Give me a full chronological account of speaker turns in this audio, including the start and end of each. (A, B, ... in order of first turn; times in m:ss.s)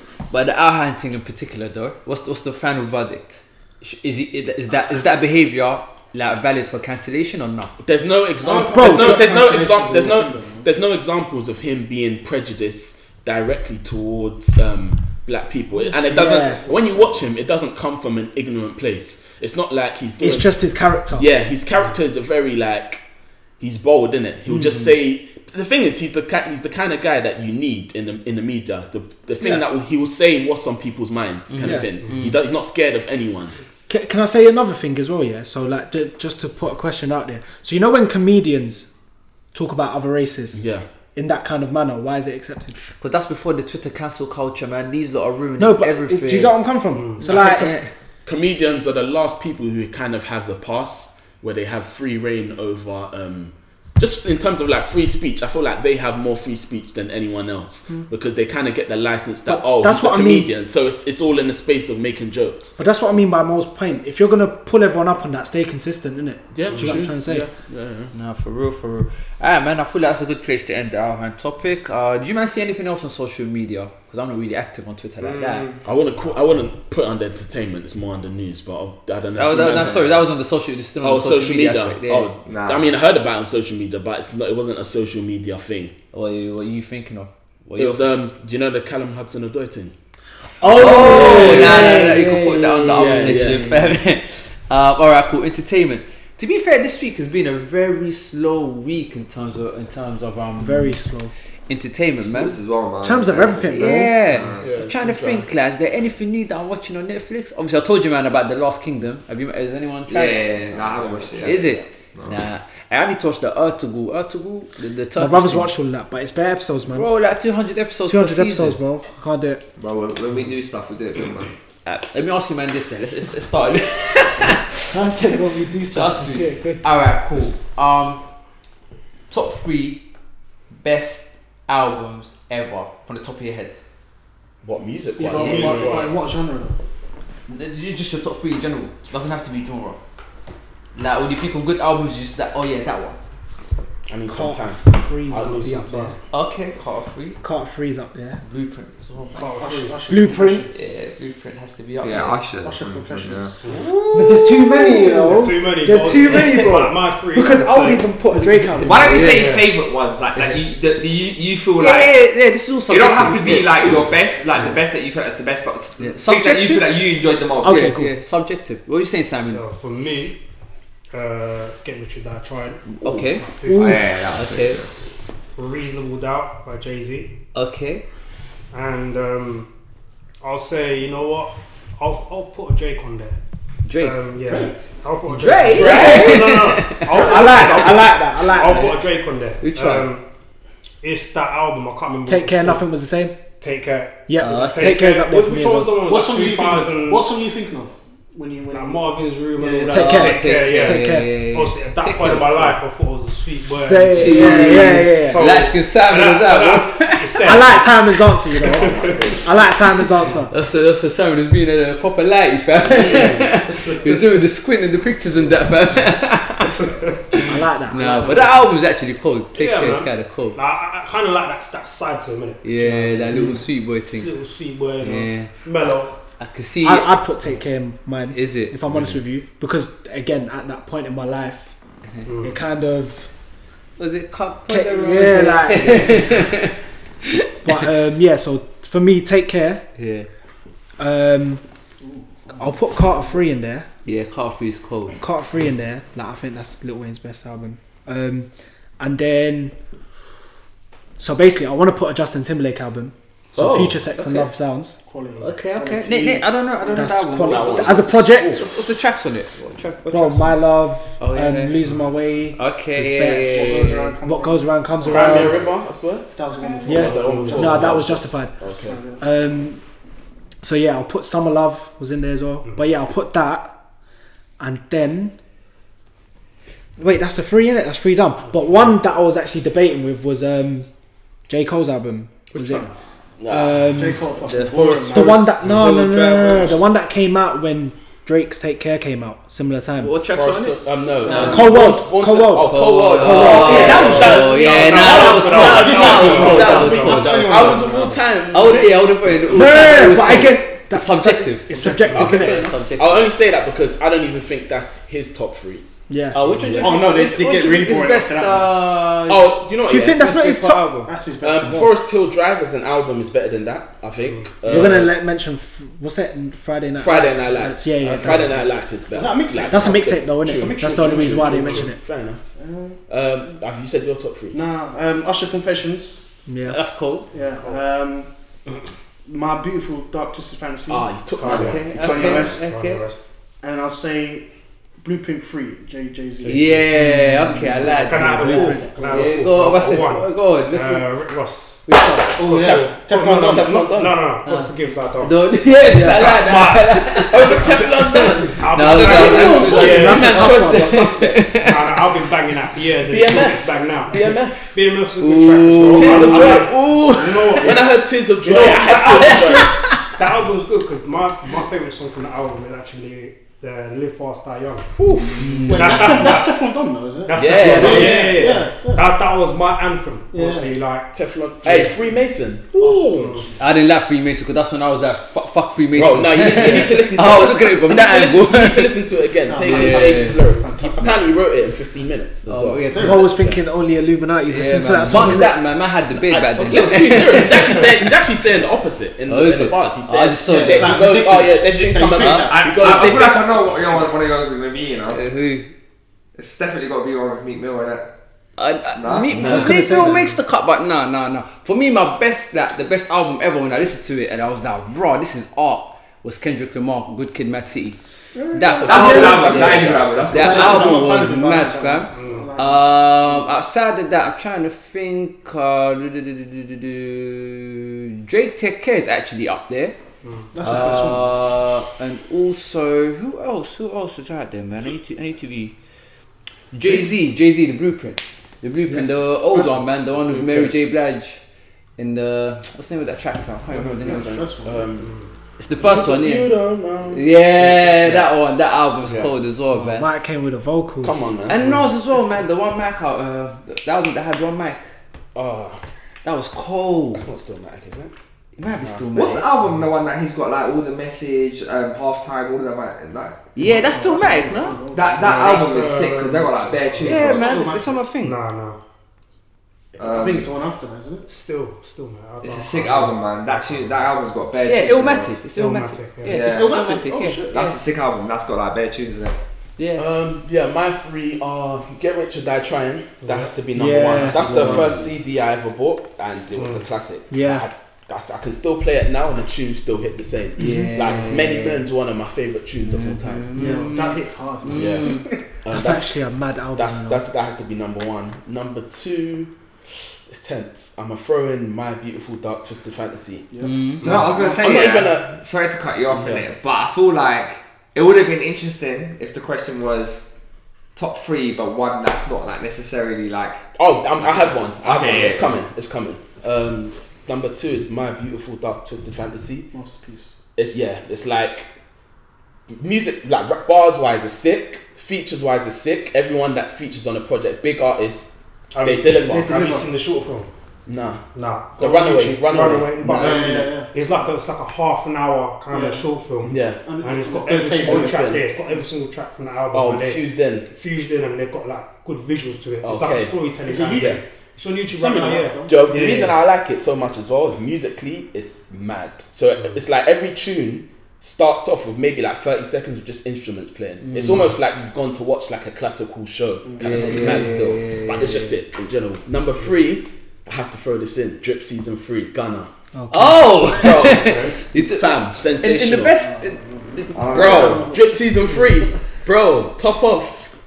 0:00.3-0:07.7 A
0:07.8-0:20.6 B
0:08.4-0:10.6 C
0:08.7-0:09.4 D
0:15.9-0:16.7 D
0:20.2-0:21.3 D
0:21.1-0:23.0 B
0:23.6-0:33.6 B
0:24.5-0:24.9 D
0:31.5-0:32.4 A
0:31.6-0:31.9 D
0:33.9-0:38.9 D
0:39.5-0:42.8 D
0:40.5-0:40.8 B
0:43.0-0:46.6 A
0:45.6-0:47.7 D
0:46.9-0:47.2 E
0:47.2-0:47.9 A
0:47.2-0:47.7 B
0:48.2-1:02.8 B
0:59.5-1:00.5 D
1:02.8-1:07.5 D
1:06.5-1:08.1 B
1:06.7-1:07.0 E
1:08.1-1:15.6 A
1:15.2-1:15.8 F
1:15.8-1:20.2 B
1:19.4-1:22.3 A
1:21.0-1:25.9 B
1:22.4-1:22.9 F
1:26.1-1:28.1 A
1:27.8-1:29.9 B
1:30.6-1:33.9 D
1:30.6-1:31.9 B
1:30.6-1:41.0 A
1:31.0-1:31.6 F
1:32.8-1:33.9 B
1:40.6-1:41.3 D
1:41.7-1:42.6 A
1:42.2-1:44.7 F
1:43.0-1:44.1 D
1:43.7-1:50.5 A
1:44.6-1:45.5 B
1:50.1-1:52.4 F
1:50.7-1:51.8 B
1:51.4-1:55.7 A
1:55.2-1:57.1 D
1:56.9-1:58.8 A
1:58.0-1:59.6 D
1:59.8-2:01.5 F
2:01.8-2:08.2 A
2:04.9-2:06.9 D
2:09.3-2:10.0 A
2:10.7-2:13.8 A
2:14.6-2:16.1 B
2:15.2-2:16.8 C
2:15.4-2:15.9 A
2:15.4-2:15.7 E
2:17.5-2:20.0 A
2:20.9-2:23.2 A
2:24.1-2:25.9 B
2:24.3-2:26.1 D
2:25.3-2:26.2 E
2:26.3-2:27.4 A
2:27.4-2:28.4 D
2:28.5-2:29.5 A
2:29.3-2:30.2 E
2:29.6-2:30.8 C
2:30.1-2:30.7 D
2:30.7-2:32.4 A
2:32.0-2:33.5 F
2:32.6-2:33.6 C
2:33.6-2:33.9 E
2:33.6-2:35.5 A
2:34.1-2:39.3 D
2:35.0-2:38.1 E
2:38.4-2:38.8 C
2:38.8-2:42.2 F
2:39.0-2:39.6 A
2:39.2-2:39.7 E
2:41.8-2:44.0 A
2:42.9-2:47.9 F
2:46.0-2:46.9 A
2:47.6-2:48.1 D
2:47.6-2:49.6 A
2:49.4-2:50.4 E
2:51.1-2:54.0 E
2:52.9-2:54.8 A
2:53.7-2:54.0 D
2:53.7-2:54.9 F
2:55.6-2:57.3 E
2:57.5-2:58.0 A
2:58.7-2:59.7 E
3:00.4-3:03.4 E
3:03.8-3:04.3 A
3:04.0-3:10.2 E
3:04.4-3:04.7 B
3:05.2-3:07.1 A
3:05.7-3:06.6 B
3:07.0-3:09.0 D
3:09.6-3:10.1 A
3:11.0-3:12.9 E
3:12.2-3:13.4 D
3:13.6-3:17.3 E
3:14.3-3:15.9 D
3:14.4-3:15.0 A
3:16.0-3:19.0 C
3:18.7-3:29.4 E
3:19.6-3:20.0 C
3:19.9-3:21.4 D
3:19.9-3:22.8 A
3:23.6-3:25.4 D
3:24.1-3:27.3 A
3:27.4-3:30.5 D
3:28.7-3:29.6 B
3:30.5-3:36.9 A
3:32.9-3:34.2 E
3:36.8-3:37.4 E
3:37.3-3:38.7 D
3:37.9-3:40.6 A
3:39.5-3:46.1 E
3:42.6-3:44.3 A
3:45.0-3:47.1 A
3:46.8-3:51.7 D
3:48.3-3:49.1 A
3:52.2-3:52.6 E
3:52.4-3:53.3 D
3:54.0-3:56.7 A
3:54.7-3:56.6 D
3:57.3-3:57.8 A
3:57.6-3:59.8 D
4:00.0-4:00.3 A
4:01.0-4:01.6 D
4:02.5-4:03.9 D
4:04.0-4:05.2 A
4:05.2-4:08.5 D
4:09.0-4:09.7 D
4:11.2-4:15.0 D
4:13.6-4:14.5 A
4:13.6-4:13.9 B
4:15.0-4:16.4 C
4:15.4-4:20.6 A
4:16.9-4:18.6 D
4:17.4-4:18.7 B
4:20.1-4:25.6 D
4:21.2-4:21.9 A
4:22.6-4:24.1 A
4:23.5-4:28.1 C
4:25.0-4:26.3 B
4:26.8-4:28.6 D
4:26.8-4:29.0 B
4:27.1-4:27.8 E
4:28.8-4:29.2 C
4:29.2-4:29.8 D
4:30.6-4:33.8 D
4:34.6-4:35.3 D
4:37.0-4:40.8 D
4:41.5-4:42.9 D
4:42.5-4:42.9 C
4:43.4-4:44.0 B
4:43.5-4:44.3 D
4:43.9-4:45.4 C
4:44.4-4:46.8 A
4:45.1-4:50.1 D
4:50.0-4:51.6 A
4:50.3-4:58.9 B
4:51.2-4:51.8 C
4:51.3-4:54.4 D
4:52.6-4:57.8 A
4:53.2-4:53.6 F
4:53.6-4:58.2 C
4:53.9-4:57.5 E
4:58.5-5:03.3 A
4:59.4-5:02.7 D
5:01.8-5:02.3 E
5:02.1-5:05.8 B
5:06.1-5:06.4 D
5:06.3-5:11.1 A
5:06.5-5:06.8 E
5:06.7-5:08.8 C
5:09.3-5:10.3 B
5:09.8-5:11.0 D
5:11.0-5:11.9 C
5:11.4-5:15.2 B
5:14.2-5:14.7 E
5:14.6-5:18.6 D
5:17.0-5:22.4 B
5:18.2-5:18.6 C
5:19.1-5:21.8 C
5:19.6-5:22.0 D
5:22.6-5:23.0 C
5:23.1-5:24.6 B
5:24.5-5:26.2 C
5:26.5-5:26.8 D
5:26.6-5:27.3 A
5:27.3-5:28.3 C
5:27.4-5:27.8 E
5:29.2-5:32.6 C
5:30.9-5:32.6 B
5:31.5-5:33.0 A
5:31.5-5:33.2 E
5:33.6-5:34.5 C
5:35.0-5:36.8 C
5:36.4-5:36.9 E
5:36.4-5:41.1 A
5:36.9-5:38.9 D
5:37.7-5:41.8 E
5:41.8-5:42.4 A
5:42.4-5:43.6 C
5:42.4-5:45.4 E
5:42.5-5:44.2 B
5:44.4-5:52.0 A
5:45.9-5:51.6 B
5:45.9-5:50.3 E
5:46.0-5:46.2 D
5:49.1-5:50.1 C
5:49.7-5:51.1 D
5:51.6-5:57.9 E
5:53.1-5:54.8 B
5:55.2-5:57.8 A
5:55.7-5:57.0 B
5:57.6-5:59.8 B
5:58.4-6:04.9 E
5:58.5-5:59.4 C
5:58.9-6:00.0 A
6:05.0-6:06.4 B
6:05.3-6:06.2 A
6:05.7-6:09.0 C
6:05.7-6:06.6 E
6:07.2-6:11.1 E
6:07.3-6:08.6 B
6:07.6-6:08.4 D
6:10.3-6:10.7 C
6:11.1-6:13.4 B
6:12.8-6:13.5 C
6:13.1-6:13.5 E
6:13.6-6:19.0 A
6:15.9-6:23.6 B
6:19.5-6:21.3 C
6:19.6-6:20.4 A
6:22.5-6:23.3 A
6:22.9-6:23.3 C
6:22.9-6:25.6 D
6:24.5-6:28.0 A
6:25.1-6:25.5 B
6:26.2-6:33.6 B
6:29.3-6:31.0 A
6:30.4-6:32.8 C
6:32.2-6:32.5 A
6:32.5-6:35.2 F
6:35.1-6:35.7 A
6:36.4-6:38.1 F
6:38.6-6:48.0 A
6:39.0-6:39.3 F
6:39.3-6:39.8 B
6:39.3-6:40.4 D
6:48.3-6:49.6 C
6:48.5-6:51.2 B
6:48.5-7:00.0 A
6:48.8-6:50.8 F
6:50.3-6:53.5 C
6:52.1-6:52.5 E
7:00.2-7:00.5 E
7:00.5-7:01.4 C
7:00.6-7:05.7 A
7:06.7-7:11.4 A
7:09.5-7:10.7 B
7:12.0-7:14.3 A
7:13.7-7:14.9 C
7:14.0-7:15.1 B
7:15.0-7:15.3 E
7:15.6-7:16.5 A
7:15.8-7:18.3 B
7:17.1-7:20.1 A
7:19.0-7:19.3 B
7:19.7-7:21.4 D
7:21.0-7:21.8 B
7:21.5-7:24.8 A
7:25.3-7:25.8 B
7:26.2-7:27.2 A
7:27.1-7:28.1 B
7:28.6-7:29.5 A
7:28.8-7:29.0 B
7:29.1-7:33.5 F
7:33.5-7:34.8 A
7:33.6-7:35.8 C
7:34.9-7:37.5 F
7:35.1-7:38.8 E
7:37.0-7:38.0 C
7:37.0-7:38.4 A
7:39.9-7:41.2 C
7:40.0-7:40.5 F
7:41.3-7:44.0 E
7:42.4-7:45.4 F
7:44.6-7:47.8 A
7:45.5-7:46.4 E
7:46.3-7:46.8 F
7:46.4-7:47.5 C
7:47.5-7:49.4 F
7:49.8-7:50.0 A
7:50.0-8:03.6 B
7:53.7-7:54.8 D
7:54.4-7:55.0 A
7:54.4-7:54.8 E
7:56.5-7:56.8 E
7:57.3-7:57.7 D
8:00.6-8:01.8 A
8:02.9-8:05.2 A
8:03.5-8:05.4 C
8:04.7-8:06.2 B
8:05.7-8:07.2 D
8:06.7-8:09.5 B
8:10.3-8:13.5 B
8:13.5-8:14.9 C
8:13.6-8:14.0 A
8:14.0-8:20.3 F
8:14.0-8:15.3 B
8:16.1-8:16.4 B
8:21.0-8:25.6 F
8:23.8-8:29.7 B
8:29.7-8:30.4 C
8:30.6-8:31.7 B
8:32.7-8:38.3 B
8:38.7-8:40.5 E
8:38.8-8:39.7 B
8:39.2-8:39.9 C
8:40.8-8:41.2 B
8:41.3-8:56.4 E
8:41.8-8:43.7 B
8:42.5-8:44.2 C
8:45.7-8:46.0 C
8:46.4-8:46.8 B
8:46.8-8:48.4 C
8:47.8-8:48.5 B
8:49.7-8:50.7 B
8:52.8-8:53.3 B
8:53.6-8:54.2 C
8:53.9-8:54.2 B
8:54.9-8:55.9 C
8:55.7-9:12.7 B
9:04.0-9:04.5 A
9:06.6-9:07.5 C
9:06.8-9:08.5 A
9:12.9-9:13.6 D
9:13.1-9:17.8 A
9:13.6-9:16.1 B
9:14.2-9:14.5 E
9:16.3-9:18.0 C
9:17.1-9:17.9 F
9:17.3-9:20.5 B